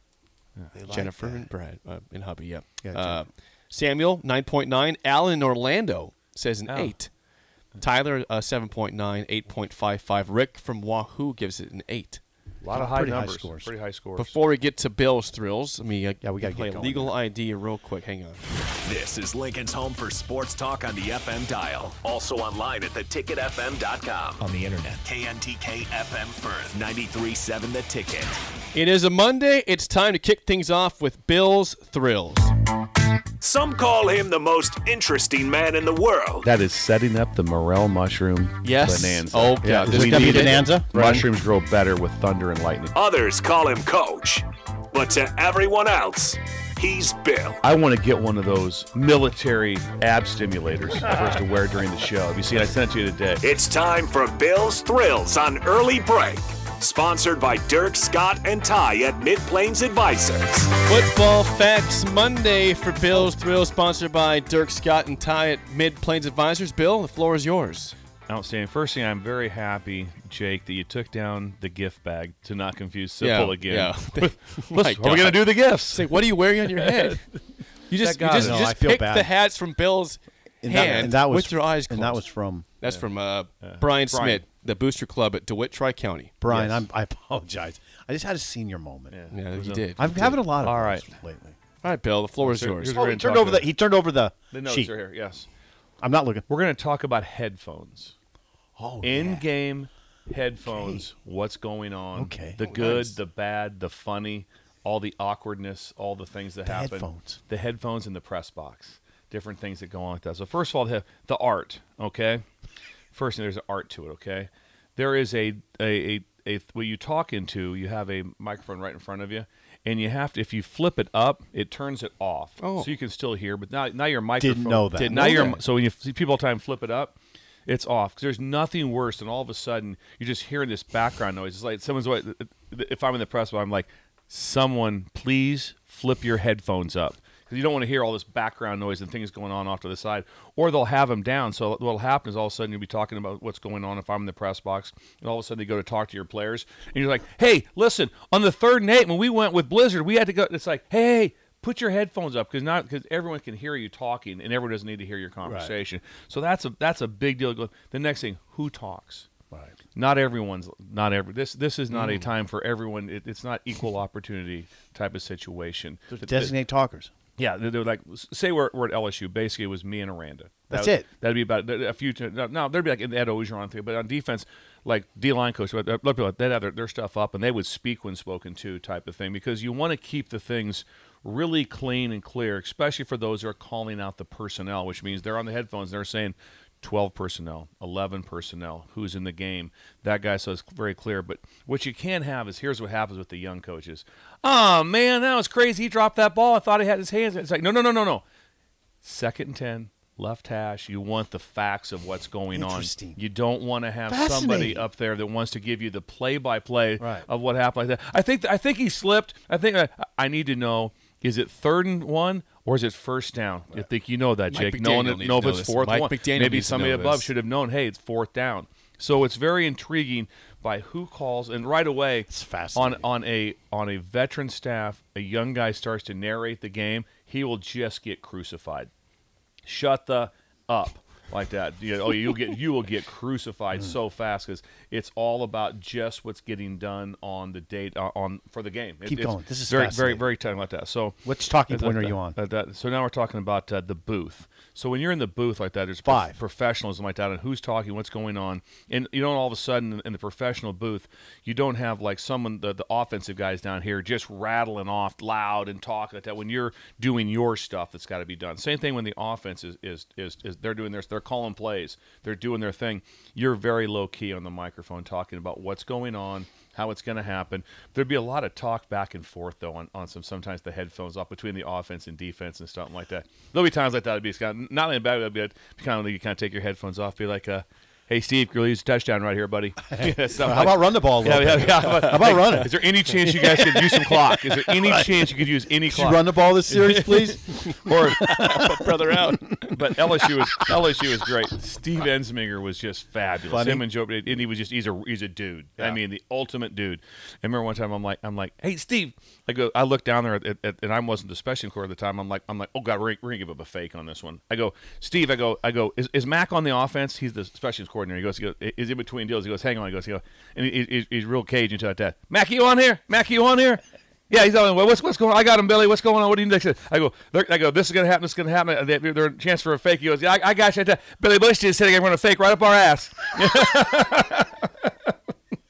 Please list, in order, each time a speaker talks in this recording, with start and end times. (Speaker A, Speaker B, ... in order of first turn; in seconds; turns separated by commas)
Speaker A: 0.7-1.5, Speaker B: 0.9-7.1, Speaker A: 2.8-3.2, Speaker C: 6.7-7.0, Speaker B: 7.8-12.2, Speaker C: 12.6-14.4, Speaker A: 12.7-13.7, Speaker B: 14.2-18.4, Speaker A: 16.2-17.2, Speaker D: 18.8-28.4, Speaker B: 28.7-32.5, Speaker D: 33.4-36.5, Speaker C: 36.4-43.0, Speaker B: 38.6-40.7, Speaker A: 39.6-41.3, Speaker D: 43.0-47.6, Speaker C: 47.6-53.5, Speaker D: 53.4-60.8, Speaker B: 60.8-68.0, Speaker C: 68.3-77.2, Speaker B: 73.2-77.3, Speaker B: 77.9-82.2, Speaker C: 78.0-78.8, Speaker A: 78.3-79.3, Speaker A: 80.6-82.7, Speaker C: 80.7-81.1, Speaker B: 82.8-86.4, Speaker C: 83.6-84.4, Speaker A: 86.4-89.1, Speaker C: 86.5-86.8, Speaker C: 89.1-89.9, Speaker B: 89.3-90.4, Speaker A: 90.0-91.6, Speaker C: 90.6-91.1, Speaker B: 91.8-93.0, Speaker C: 92.4-93.7, Speaker A: 92.9-94.9, Speaker C: 94.5-95.5, Speaker A: 96.0-96.5, Speaker C: 96.5-98.1, Speaker A: 98.8-99.5, Speaker C: 99.0-112.4, Speaker A: 100.6-101.0, Speaker A: 102.1-103.2, Speaker A: 106.7-107.4, Speaker C: 113.1-127.2, Speaker B: 122.6-122.9, Speaker A: 124.4-125.6, Speaker B: 125.0-125.6, Speaker C: 127.7-159.3, Speaker A: 155.4-155.7, Speaker C: 159.9-166.5, Speaker A: 166.2-167.1, Speaker C: 167.4-198.2, Speaker A: 170.7-171.1, Speaker C: 199.0-228.9, Speaker A: 202.5-203.2, Speaker A: 204.1-204.9, Speaker A: 207.0-207.3, Speaker B: 214.5-217.3, Speaker A: 222.3-223.1, Speaker C: 229.7-288.6, Speaker A: 239.1-240.3, Speaker A: 241.2-242.4, Speaker A: 246.1-246.4, Speaker A: 279.9-285.1, Speaker A: 285.8-290.3, Speaker B: 287.6-289.8, Speaker C: 289.7-325.1, Speaker A: 293.5-293.9